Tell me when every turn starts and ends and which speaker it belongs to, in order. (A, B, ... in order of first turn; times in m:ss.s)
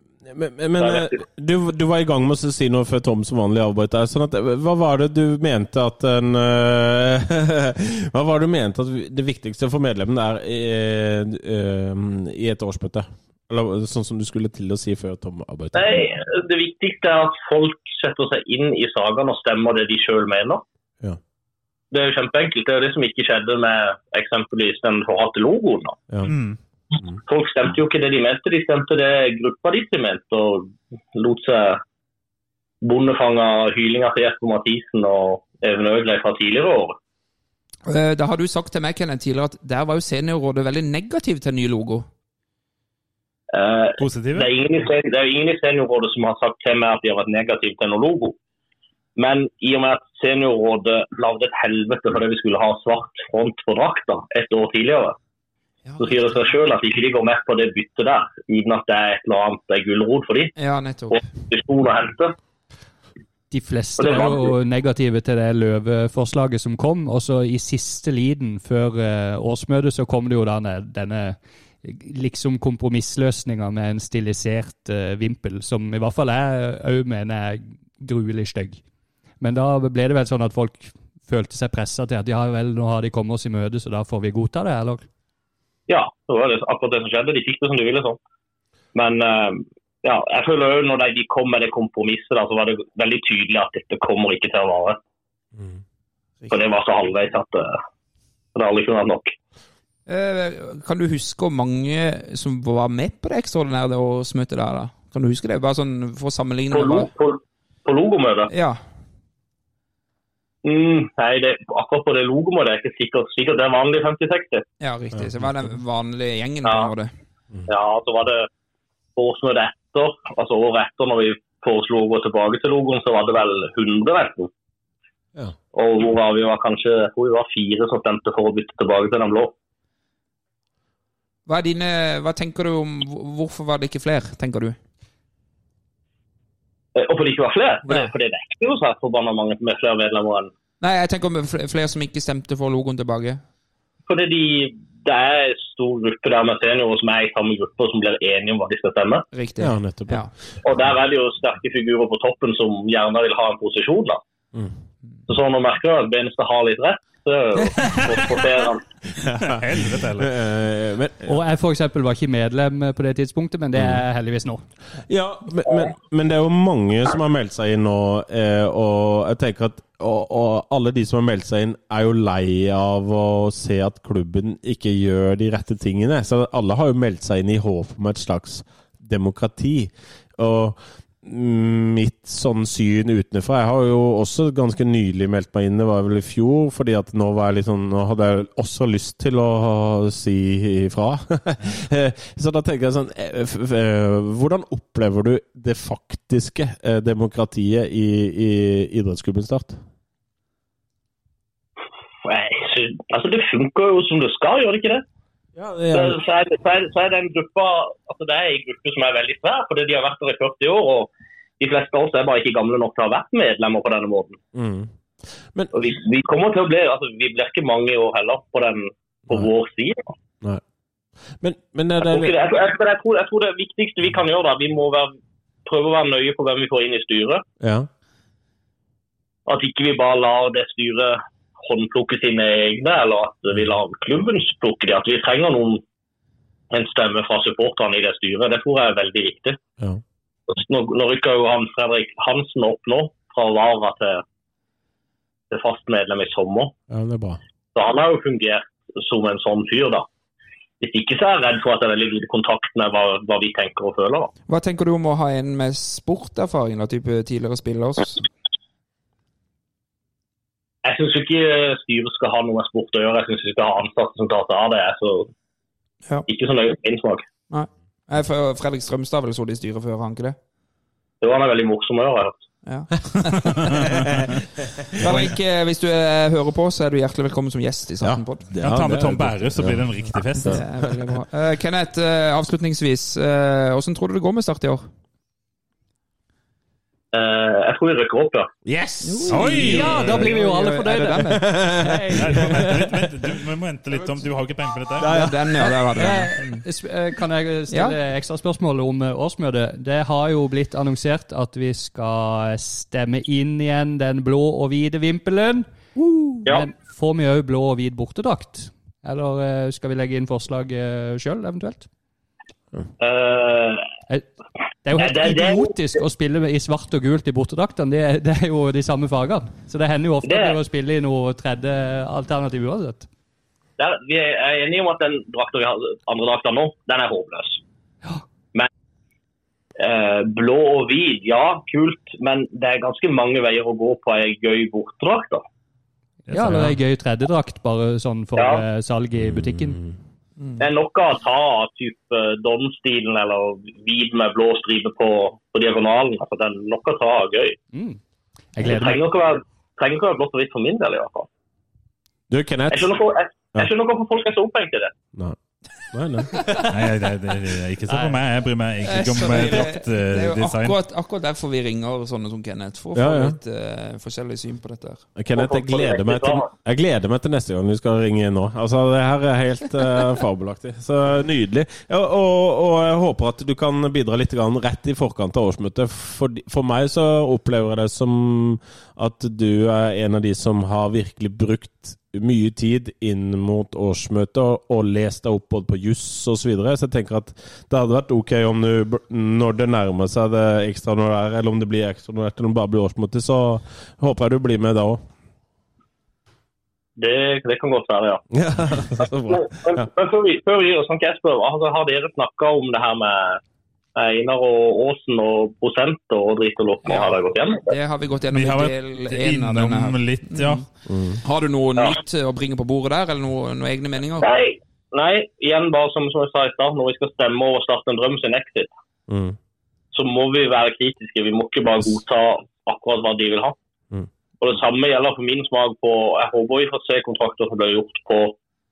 0:00.3-0:16.0 A
0:00.8-0:01.1 B
0:15.7-0:20.6 B
0:21.9-0:26.0 B
0:26.2-0:26.6 C
0:27.3-0:31.8 B
0:32.8-0:37.0 B
0:37.9-0:42.1 D
0:43.5-0:48.4 B
0:44.0-0:44.5 C
0:49.2-0:55.2 B
0:55.9-0:56.2 D
0:56.0-1:00.5 B
1:00.6-1:01.2 D
1:01.1-1:02.3 B
1:03.5-1:18.8 E
1:04.0-1:04.5 B
1:19.4-1:25.0 E
1:25.9-1:28.2 B
1:28.9-1:35.0 B
1:36.5-1:37.8 B
1:38.5-1:39.3 B
1:40.1-1:47.1 D
1:46.7-1:48.5 B
1:48.5-1:48.8 D
1:50.6-1:54.6 B
1:54.8-1:57.1 D
1:55.1-1:55.4 A
1:56.6-1:56.9 B
1:57.7-1:58.5 B
1:59.2-2:04.5 B
2:05.7-2:09.5 B
2:11.5-2:14.8 D
2:16.9-2:20.5 B
2:20.8-2:23.4 D
2:24.1-2:29.2 B
2:29.3-2:30.3 D
2:29.6-2:30.2 A
2:30.6-2:34.2 B
2:35.3-2:38.8 B
2:39.2-2:41.4 A
2:39.4-2:40.3 C
2:41.2-2:44.6 E
2:43.7-2:44.0 A
2:45.1-3:19.8 A
3:22.2-3:25.0 B
3:25.6-3:26.2 A
3:25.9-3:34.4 B
3:34.5-3:34.9 A
3:35.4-3:35.7 A
3:35.7-3:40.1 B
3:41.4-3:42.3 A
3:42.0-3:45.1 B
3:45.6-3:47.4 B
3:47.6-3:47.9 A
3:49.5-3:55.8 B
3:56.7-3:59.6 B
4:00.5-4:04.2 B
4:05.5-4:06.7 B
4:06.9-4:07.4 A
4:07.7-4:10.1 B
4:10.8-4:14.3 B
4:14.5-4:18.2 D
4:20.8-4:25.3 B
4:26.3-4:27.2 B
4:27.5-4:30.4 D
4:31.2-4:32.5 B
4:32.6-4:34.0 D
4:33.8-4:34.0 C
4:34.9-4:35.3 A
4:35.0-4:38.5 D
4:38.0-4:40.9 A
4:38.6-4:40.6 C
4:40.5-4:44.8 D
4:47.1-4:48.5 B
4:48.6-4:50.3 A
4:49.0-4:51.6 D
4:49.3-4:50.0 C
4:49.4-4:52.7 E
4:51.4-4:52.9 A
4:52.2-4:55.1 C
4:55.0-4:56.1 A
4:55.0-4:56.6 D
4:55.6-5:11.9 E
4:57.7-4:58.0 D
5:13.0-5:13.8 B
5:14.8-5:23.1 E
5:14.9-5:15.8 B
5:20.2-5:20.6 B
5:23.8-5:27.6 B
5:29.8-5:35.4 B
5:36.3-5:39.8 E
5:36.3-5:36.8 A
5:38.4-5:38.6 B
5:39.2-5:39.9 A
5:40.6-5:47.6 B
5:47.7-5:48.0 E
5:48.5-5:49.0 E
5:48.6-5:51.3 B
5:52.3-5:52.9 A
5:52.7-5:54.9 B
5:55.9-5:56.6 A
5:56.7-6:00.8 C
5:57.9-5:58.2 E
5:58.8-6:05.0 D
6:02.9-6:03.4 A
6:05.2-6:35.0 A
6:05.3-6:06.5 B
6:37.0-6:38.2 B
6:38.3-6:39.9 A
6:39.0-6:43.4 B
6:43.9-6:47.7 B
6:46.9-6:47.1 D
6:47.7-6:50.6 D
6:48.3-6:50.6 C
6:50.9-6:51.2 A
6:51.2-6:54.3 D
6:54.2-6:58.7 B
6:59.1-6:59.4 A
6:59.9-7:03.6 B
7:04.4-7:08.4 B